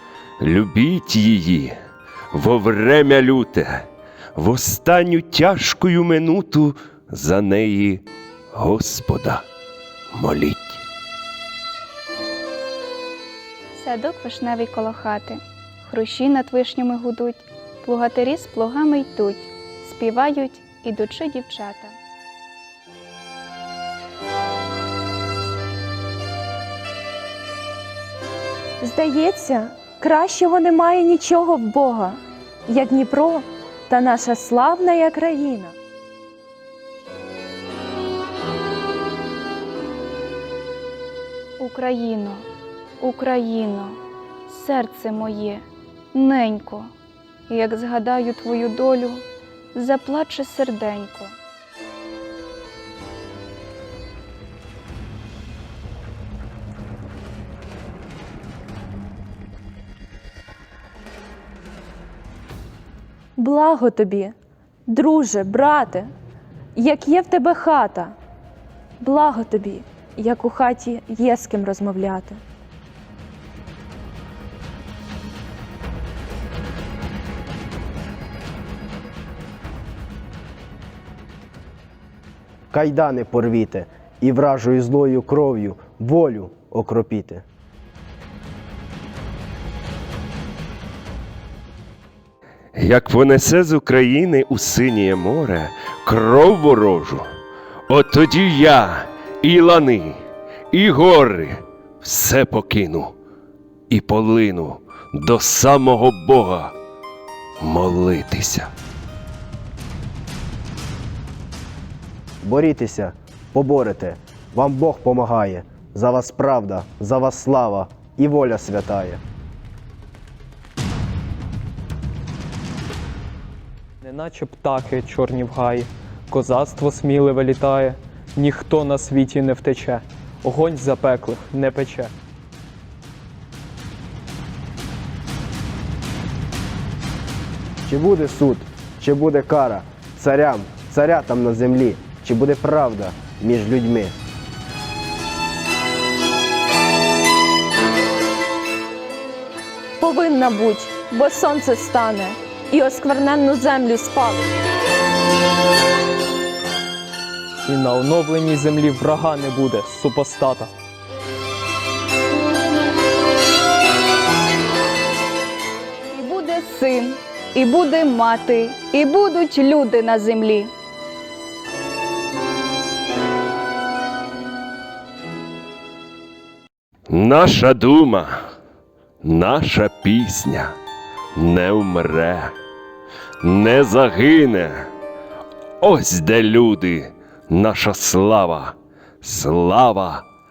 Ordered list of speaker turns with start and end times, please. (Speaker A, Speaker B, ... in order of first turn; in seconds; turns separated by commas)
Speaker A: 0.4-1.7, Speaker A: 2.3-3.8, Speaker A: 4.4-8.0, Speaker A: 8.6-9.4, Speaker A: 10.1-10.8, Speaker B: 13.8-21.9, Speaker C: 28.8-35.8, Speaker B: 41.6-42.5, Speaker B: 43.0-46.9, Speaker B: 47.5-51.4, Speaker C: 63.4-64.3, Speaker C: 64.9-66.1, Speaker C: 66.8-68.2, Speaker C: 69.0-72.4, Speaker D: 82.7-87.4, Speaker A: 92.8-97.2, Speaker A: 97.9-100.2, Speaker A: 100.7-103.1, Speaker A: 103.9-106.7, Speaker A: 107.6-108.7, Speaker D: 112.4-119.2, Speaker E: 124.0-132.1, Speaker D: 137.9-144.2, Speaker C: 150.0-154.5, Speaker E: 157.6-160.7, Speaker B: 166.1-170.7, Speaker A: 177.1-178.3, Speaker A: 179.2-180.8, Speaker A: 181.3-182.5, Speaker A: 183.4-184.9, Speaker A: 185.8-190.2